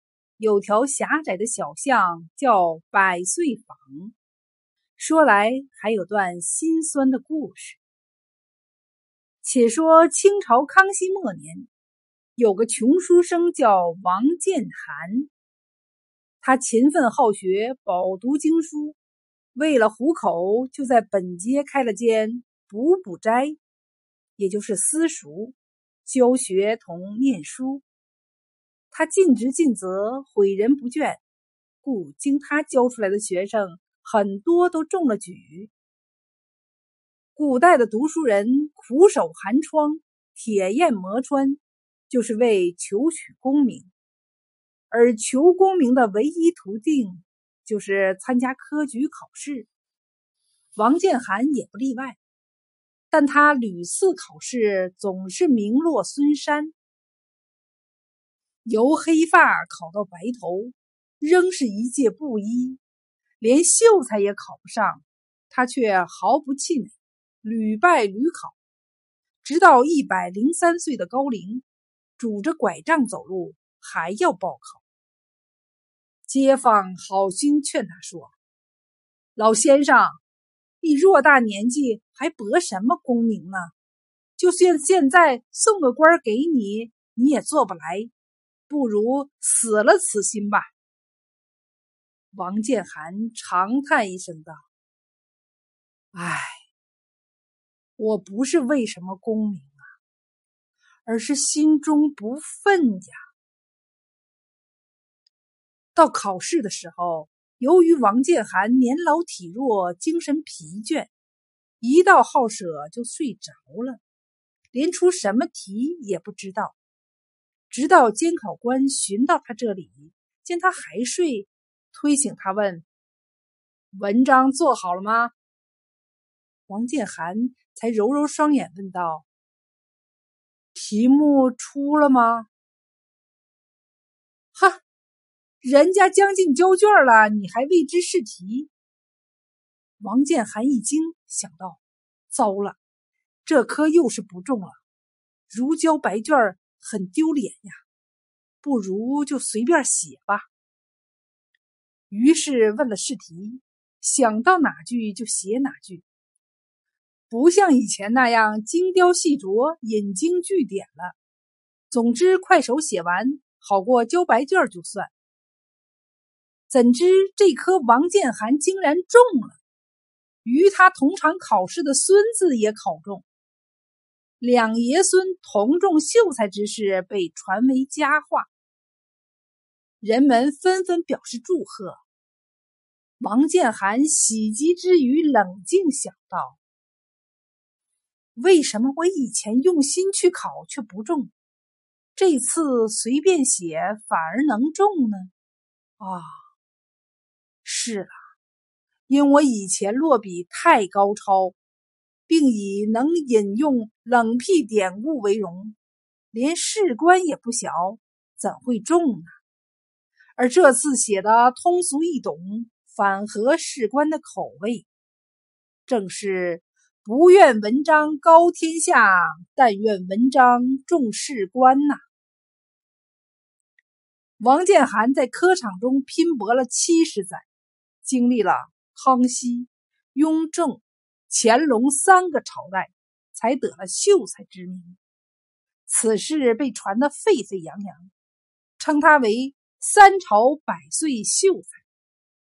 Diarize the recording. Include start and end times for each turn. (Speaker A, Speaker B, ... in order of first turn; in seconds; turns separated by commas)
Speaker A: 0.4-4.1, Speaker A: 5.0-7.8, Speaker A: 9.4-11.7, Speaker A: 12.3-15.3, Speaker A: 16.4-19.0, Speaker A: 19.5-23.6, Speaker A: 24.4-27.8, Speaker A: 28.9-31.2, Speaker A: 31.8-35.7, Speaker A: 37.4-43.9, Speaker A: 44.9-49.7, Speaker A: 50.8-52.2, Speaker A: 53.1-56.7, Speaker A: 58.6-62.8, Speaker A: 63.4-68.6, Speaker A: 69.4-71.6, Speaker A: 72.2-74.8, Speaker A: 76.2-78.3, Speaker A: 79.3-80.2, Speaker A: 80.8-83.7, Speaker A: 84.4-88.1, Speaker A: 88.7-90.7, Speaker A: 92.3-94.6, Speaker A: 96.1-96.6, Speaker A: 98.0-99.8, Speaker A: 101.0-103.2, Speaker A: 105.9-111.1, Speaker A: 111.8-114.0, Speaker A: 114.7-116.8, Speaker A: 117.7-122.8, Speaker A: 123.9-125.3, Speaker A: 126.7-129.2, Speaker A: 130.7-132.5, Speaker A: 134.5-134.8, Speaker A: 135.6-138.7, Speaker A: 140.0-142.8, Speaker A: 143.4-144.8, Speaker A: 145.5-147.8, Speaker A: 148.6-150.5, Speaker A: 152.1-156.0, Speaker A: 157.3-161.2, Speaker A: 161.9-165.1, Speaker A: 166.7-169.6, Speaker A: 170.4-173.2, Speaker A: 174.4-178.5, Speaker A: 180.0-182.0, Speaker A: 183.2-186.6, Speaker A: 188.3-191.3, Speaker A: 192.2-195.3, Speaker A: 196.0-196.4, Speaker A: 197.6-198.2, Speaker A: 199.1-201.6, Speaker A: 202.3-205.8, Speaker A: 206.3-209.4, Speaker A: 210.4-214.9, Speaker A: 215.9-222.0, Speaker A: 224.4-227.5, Speaker A: 228.0-235.0, Speaker A: 235.9-238.1, Speaker A: 238.8-241.8